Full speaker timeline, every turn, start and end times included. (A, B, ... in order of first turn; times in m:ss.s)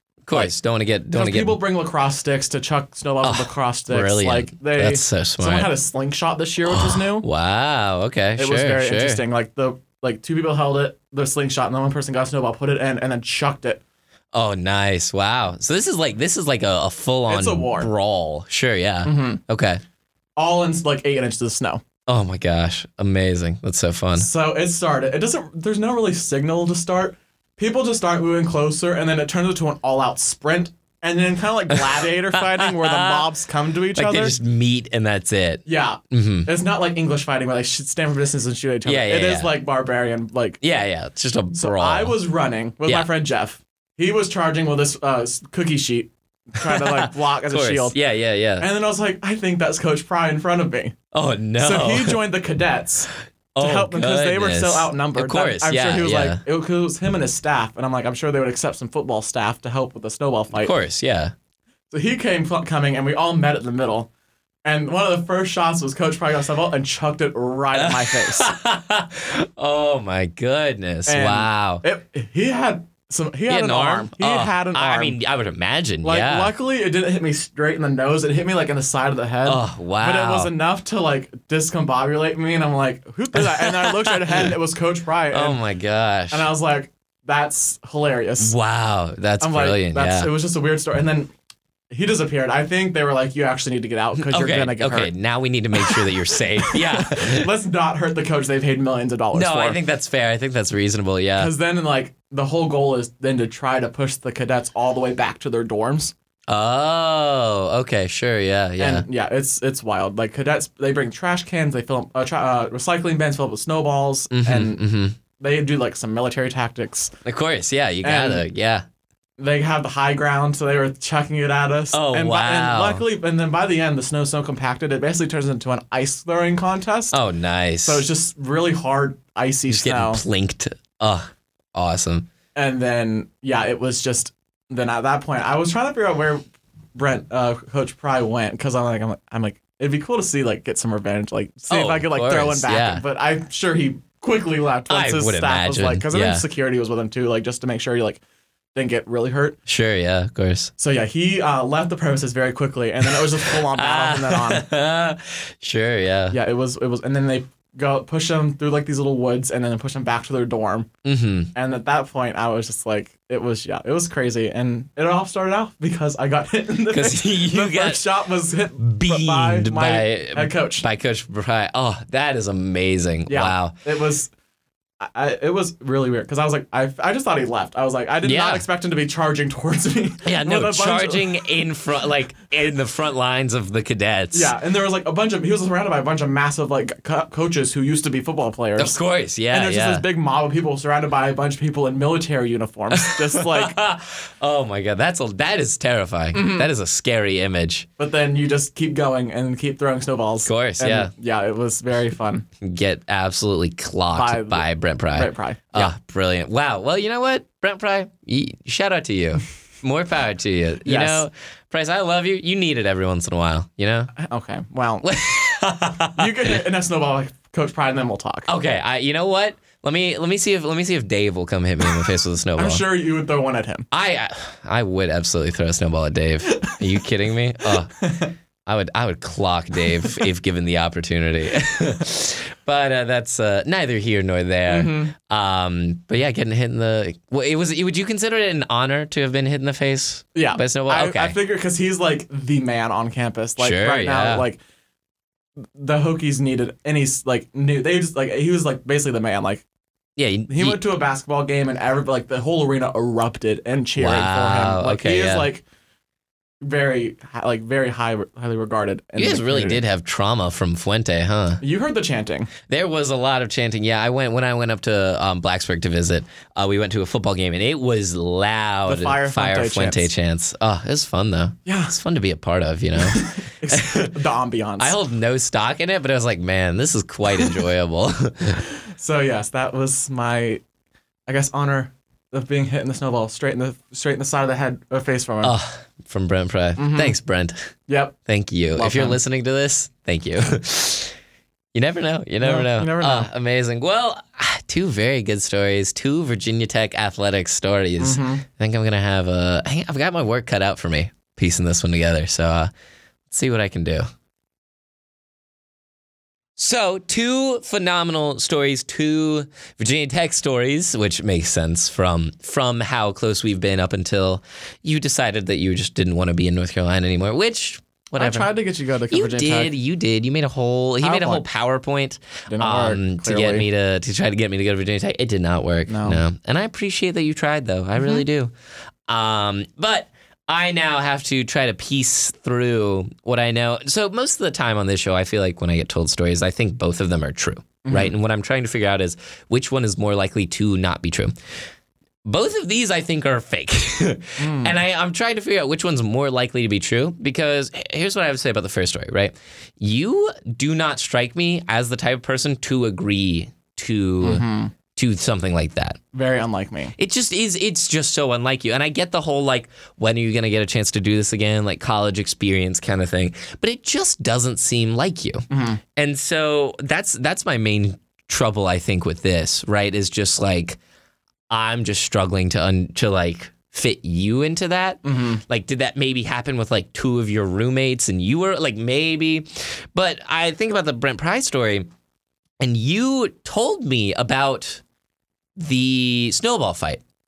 0:00.2-0:01.6 A
0:01.1-0:07.3 B
0:03.2-0:05.7 A
0:06.6-0:09.2 A
0:08.4-0:13.8 B
0:14.3-0:19.8 A
0:17.3-0:17.9 B
0:19.0-0:19.4 B
0:20.4-0:21.8 B
0:22.1-0:24.3 A
0:24.2-0:34.4 B
0:31.7-0:33.3 A
0:34.0-0:36.5 A
0:35.6-0:40.6 B
0:38.8-0:39.5 A
0:40.6-0:42.1 A
0:41.6-0:48.0 B
0:46.6-0:48.7 A
0:48.6-0:51.0 B
0:51.1-0:52.2 A
0:51.6-1:00.7 B
0:53.6-0:56.4 A
1:00.6-1:01.3 A
1:01.9-1:04.1 B
1:04.6-1:08.5 B
1:07.7-1:11.8 A
1:11.1-1:15.2 B
1:13.5-1:16.5 A
1:16.0-1:25.6 B
1:19.4-1:20.5 A
1:23.3-1:24.5 A
1:25.3-1:26.5 A
1:26.3-1:28.5 B
1:28.4-1:30.3 A
1:29.4-1:31.3 B
1:31.9-1:35.1 B
1:34.1-1:37.5 A
1:35.8-1:39.8 B
1:39.3-1:41.5 A
1:41.4-1:46.1 B
1:46.5-1:49.1 A
1:48.8-1:54.8 B
1:54.3-1:55.2 A
1:55.4-1:57.1 B
1:57.2-1:58.8 A
1:58.0-1:58.4 B
1:59.4-2:07.2 B
2:01.9-2:03.0 A
2:07.1-2:08.1 A
2:07.8-2:10.2 B
2:09.7-2:12.3 A
2:12.6-2:16.4 B
2:17.0-2:28.2 B
2:21.7-2:23.0 A
2:24.9-2:26.4 A
2:28.7-2:29.6 B
2:29.6-2:30.7 A
2:30.8-2:34.6 B
2:33.1-2:36.4 A
2:36.3-2:40.9 B
2:41.0-2:41.5 A
2:41.5-2:50.8 B
2:46.9-2:48.0 A
2:48.8-2:53.8 A
2:53.3-2:54.3 B
2:55.0-3:01.4 B
2:58.2-2:58.6 A
3:00.2-3:04.5 A
3:04.3-3:09.0 B
3:08.8-3:10.0 A
3:09.5-3:13.8 B
3:12.9-3:17.9 A
3:16.3-3:16.7 B
3:18.0-3:22.5 B
3:20.4-3:21.1 A
3:22.6-3:34.1 A
3:24.1-3:25.9 B
3:30.8-3:31.2 B
3:34.2-3:35.1 B
3:35.0-3:36.6 A
3:36.1-3:38.5 B
3:38.5-3:42.8 A
3:42.6-3:43.9 B
3:43.9-3:47.9 A
3:46.5-3:46.8 B
3:48.0-3:48.3 B
3:48.6-4:01.4 A
3:54.7-3:55.1 B
4:00.3-4:04.6 B
4:03.6-4:04.5 A
4:05.8-4:09.6 B
4:10.2-4:10.8 A
4:10.5-4:15.6 B
4:14.0-4:15.5 A
4:16.6-4:19.8 B
4:19.2-4:21.6 A
4:21.6-4:22.5 B
4:22.7-4:34.1 A
4:28.9-4:30.1 B
4:31.6-4:32.0 B
4:33.0-4:35.0 B
4:34.8-4:38.6 A
4:38.8-4:40.6 B
4:41.3-4:45.6 B
4:45.4-4:47.7 A
4:46.8-4:47.2 B
4:47.9-4:48.2 B
4:48.3-4:51.1 A
4:48.8-4:49.2 B
4:51.7-5:02.7 A
4:52.4-4:53.3 B
4:58.0-4:58.5 B
5:03.3-5:04.1 A
5:06.6-5:18.5 A
5:18.2-5:19.7 B
5:19.1-5:28.5 A
5:21.0-5:21.4 B
5:22.5-5:23.6 B
5:25.9-5:26.2 B
5:29.1-5:41.3 A
5:37.8-5:38.1 B
5:42.2-5:56.0 A
5:44.4-5:44.8 B
5:54.2-5:54.7 B
5:56.1-5:56.9 B
5:57.0-6:10.8 A
6:05.5-6:05.8 B
6:11.5-6:21.9 A
6:15.0-6:15.4 B
6:22.6-6:24.8 A
6:25.6-6:27.0 A